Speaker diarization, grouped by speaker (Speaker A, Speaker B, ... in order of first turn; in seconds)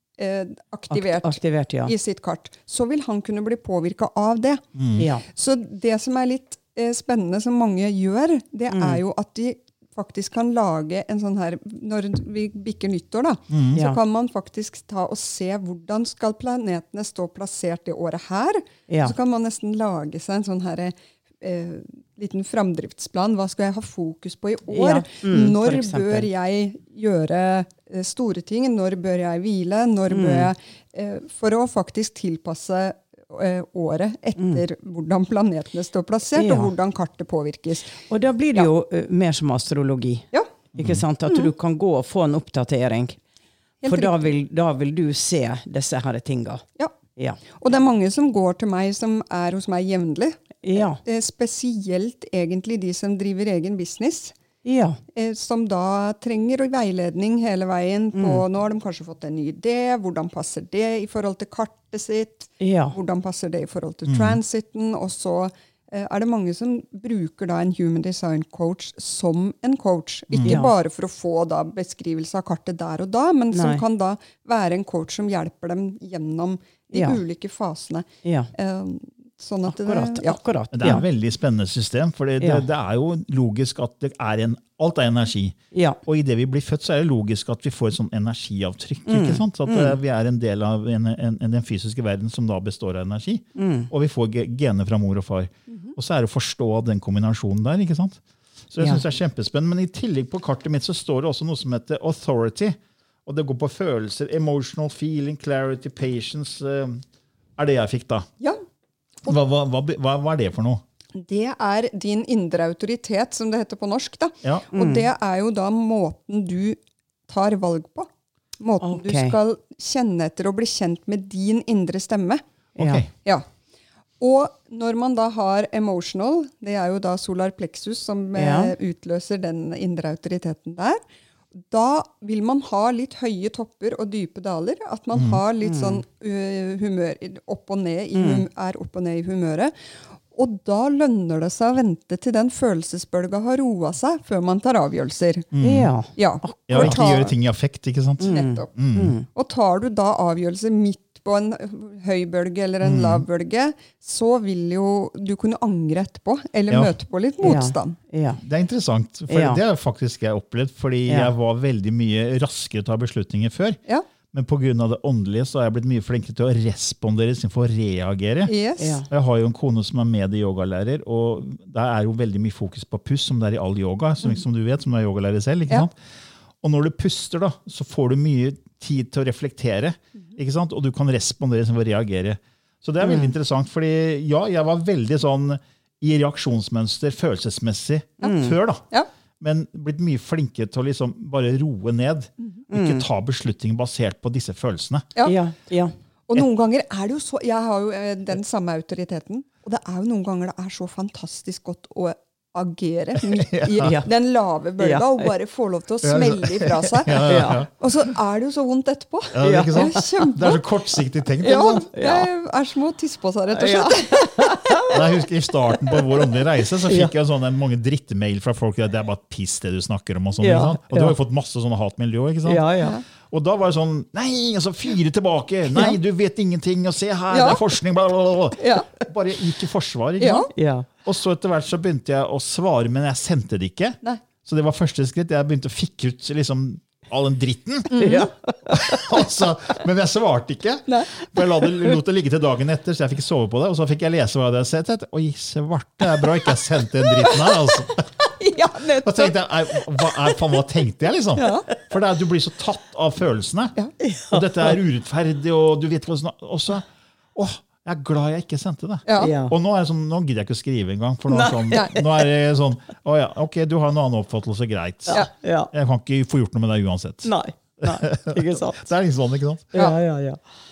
Speaker A: 0.2-4.6, 5.3-38.0, 43.8-44.3, 47.5-54.3, 55.1-80.9, 111.1-118.1, 118.6-122.4, 124.2-131.0, 131.6-139.7, 140.3-145.5, 146.2-147.3, 148.2-148.7, 149.3-158.0, 168.4-169.0, 196.3-210.6, 211.4-214.8, 227.3-227.6, 228.6-228.9, 230.2-230.5, 237.9-238.3, 247.9-249.8, 251.3-251.7, 259.1-259.3, 261.7-262.0
Speaker B: 0.9-1.9, 5.0-5.2, 8.7-9.0, 13.7-14.0, 18.9-19.1, 24.7-26.3, 30.1-30.5, 34.4-34.6, 36.4-36.7, 38.1-43.2, 43.8-46.6, 50.6-51.0, 54.6-55.0, 58.1-58.4, 62.6-63.0, 70.4-70.7, 73.5-73.8, 76.9-77.2, 78.2-78.5, 79.7-81.0, 82.4-82.7, 85.7-86.0, 89.1-90.0, 93.5-93.9, 114.7-115.1, 118.8-119.4, 122.8-123.0, 128.3-128.7, 135.6-136.0, 138.1-138.4, 145.6-147.0, 148.2-149.2, 157.4-158.4, 159.3-159.6, 168.8-169.1, 183.0-183.3, 188.2-188.6, 192.7-193.0, 195.2-195.9, 203.8-204.1, 204.8-205.3, 207.2-207.6, 209.4-210.3, 211.9-212.3, 213.5-214.9, 216.9-217.1, 220.4-221.2, 222.4-223.0, 230.5-230.9, 238.0-239.2, 254.0-254.8, 259.2-259.6, 261.3-262.2, 265.1-265.7, 267.2-268.9, 269.7-270.4
Speaker C: 4.8-5.0, 13.5-13.8, 40.8-41.0, 64.0-64.4, 70.3-70.6, 80.7-98.2, 98.7-107.0, 107.6-108.3, 109.2-110.8, 122.8-123.1, 145.5-145.9, 146.7-149.2, 152.8-153.2, 158.4-163.8, 164.3-168.5, 169.1-175.9, 176.6-188.8, 189.4-195.1, 203.3-203.9, 206.0-207.7, 209.3-211.9, 214.9-222.6, 223.3-230.5, 231.0-237.9, 238.7-248.0, 249.0-253.7, 254.3-267.3, 267.8-269.7